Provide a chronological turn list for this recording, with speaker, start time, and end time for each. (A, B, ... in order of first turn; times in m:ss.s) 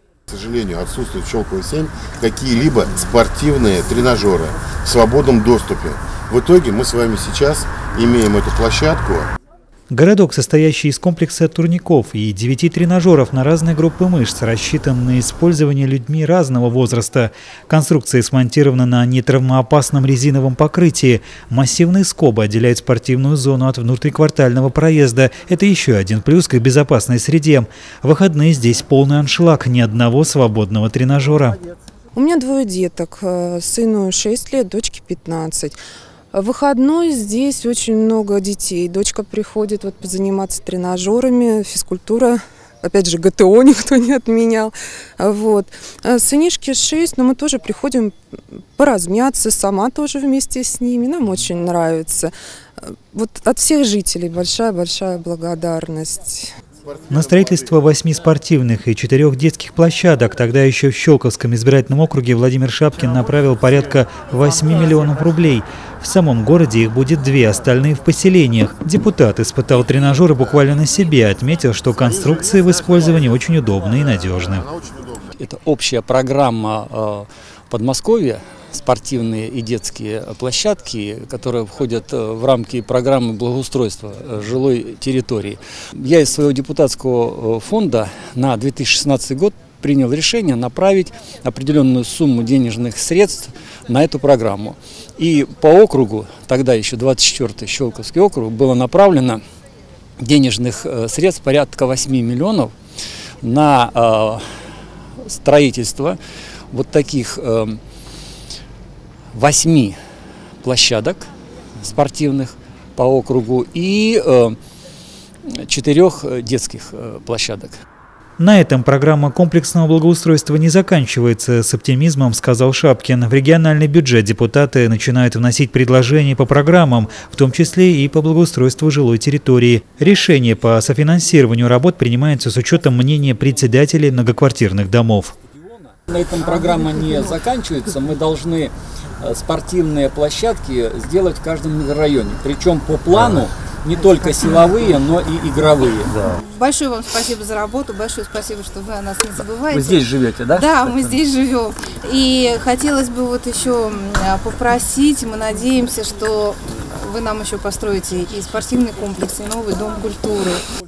0:00.3-0:09.3 A
0:09.9-0:31.6 B
0:32.1-0:35.8 C
0:36.3-0:48.2 C
0:48.8-0:56.5 C
0:57.1-1:14.7 B
1:15.4-1:39.4 D
1:40.2-1:42.7 D
1:43.4-1:44.4 D
1:45.2-1:46.2 D
1:46.7-1:47.8 D
1:49.3-1:50.0 D
1:50.6-1:54.6 D
1:55.5-1:57.8 D
1:58.4-2:15.3 B
2:15.9-2:26.4 D
2:26.4-2:40.6 E
2:29.7-2:31.2 D